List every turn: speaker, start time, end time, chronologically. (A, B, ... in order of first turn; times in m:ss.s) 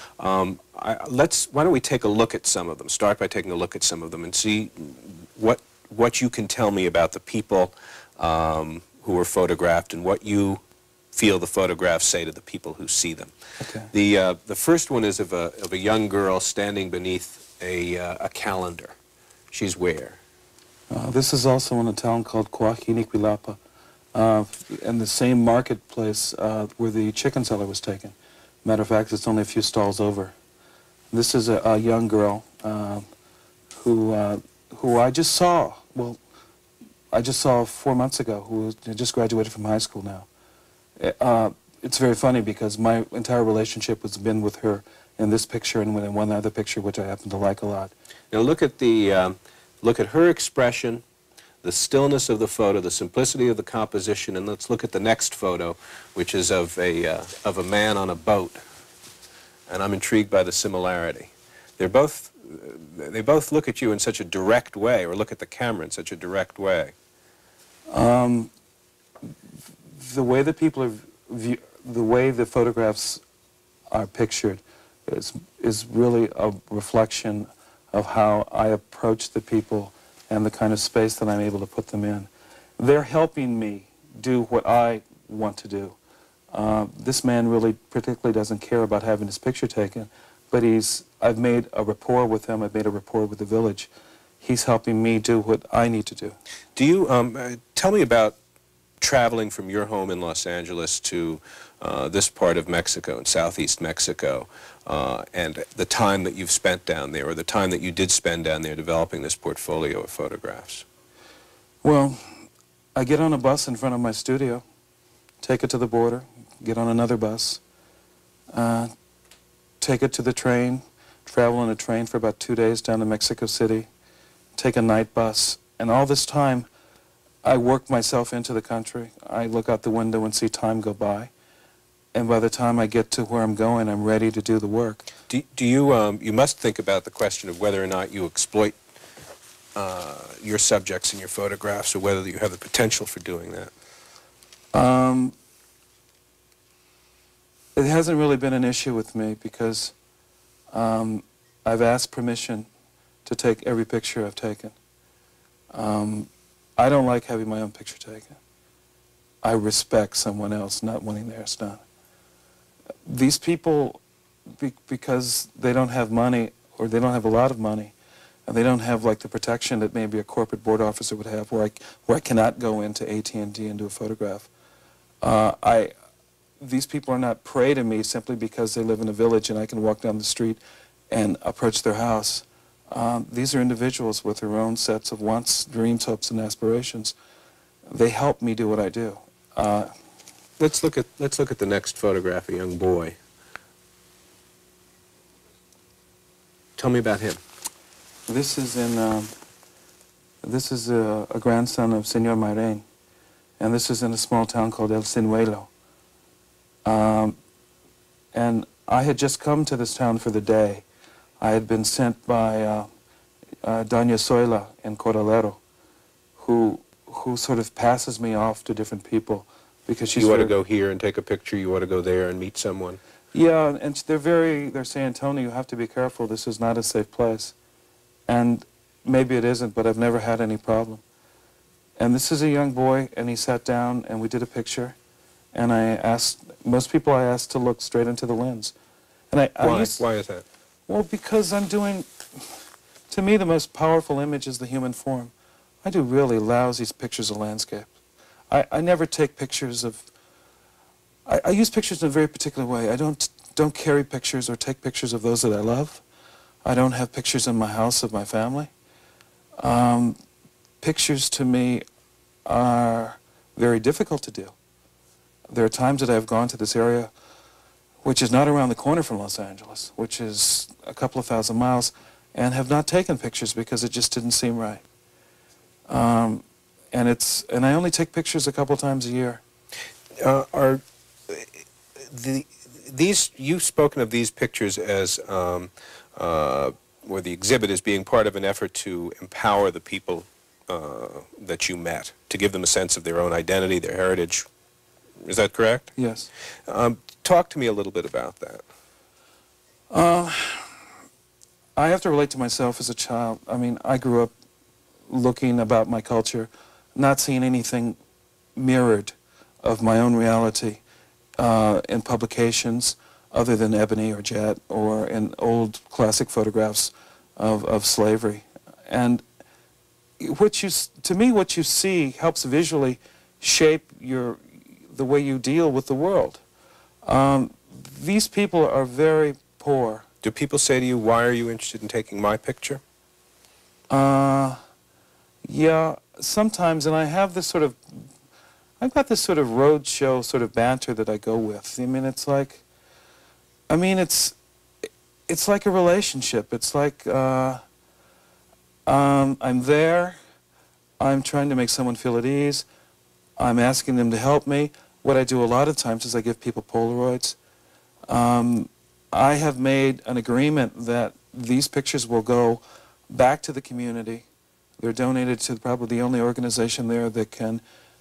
0:00.2-0:10.6 A
0:11.1-0:13.3 A
0:13.6-0:13.9 B
0:13.9-0:19.0 A
0:19.5-0:20.2 A
0:20.9-0:23.6 B
0:24.1-0:30.3 B
0:31.1-0:33.1 B
0:33.8-0:36.2 B
0:37.1-0:40.3 B
0:41.0-0:47.9 B
0:48.3-0:51.0 A
0:51.6-0:58.6 A
0:59.7-1:06.9 A
1:07.9-1:08.5 B
1:09.9-1:13.2 B
1:13.9-1:26.0 B
1:26.5-1:33.9 B
1:34.4-1:36.4 B
1:36.8-1:38.4 A
1:39.0-1:50.8 A
1:51.8-1:52.2 B
1:53.0-1:54.6 B
1:55.4-1:57.6 B
1:58.5-1:58.9 B
1:59.8-2:03.9 B
2:04.6-2:06.7 B
2:07.4-2:11.3 B
2:12.1-2:15.1 B
2:15.3-2:18.8 A
2:19.8-2:23.7 A
2:24.7-2:25.4 B
2:27.8-2:30.0 B
2:30.7-2:32.7 B
2:33.2-2:34.8 B
2:35.7-2:38.4 B
2:39.4-2:41.8 B
2:43.1-2:44.0 B
2:44.6-2:47.9 B
2:48.5-2:54.5 B
2:55.2-2:55.9 B
2:56.6-3:07.2 B
3:07.9-3:09.9 B
3:10.6-3:13.2 A
3:16.8-3:17.4 A
3:18.3-3:19.3 B
3:20.4-3:22.9 B
3:23.6-3:25.7 B
3:26.8-3:27.4 B
3:28.3-3:30.8 B
3:31.4-3:32.9 B
3:33.6-3:35.6 B
3:36.4-3:40.5 B
3:40.2-3:43.0 A
3:43.3-3:47.6 B
3:48.3-3:51.0 B
3:52.0-3:55.0 B
3:55.5-3:58.8 B
3:59.3-4:00.0 B
3:59.6-4:00.4 A
4:00.9-4:02.5 B
4:03.1-4:05.3 B
4:05.8-4:07.9 B
4:08.5-4:10.1 B
4:11.3-4:16.0 B
4:16.6-4:18.7 B
4:19.6-4:20.2 B
4:20.8-4:21.8 B
4:22.4-4:24.6 B
4:25.5-4:27.1 B
4:28.0-4:34.8 B
4:35.9-4:39.4 B
4:40.2-4:54.5 A
4:55.2-4:55.9 A
4:56.0-4:56.3 B
4:56.7-4:58.6 A
4:59.9-5:00.7 B
5:01.8-5:04.3 B
5:05.1-5:08.0 B
5:08.6-5:10.8 B
5:11.4-5:19.2 B
5:20.2-5:26.4 B
5:27.0-5:30.1 B
5:30.2-5:32.8 A
5:33.9-5:34.6 B
5:35.4-5:38.1 B
5:38.8-5:42.6 B
5:43.7-5:44.4 B
5:45.3-5:47.6 B
5:48.9-5:50.2 B
5:51.0-5:52.6 B
5:53.4-5:57.4 B
5:58.1-6:04.2 B
6:04.8-6:07.6 B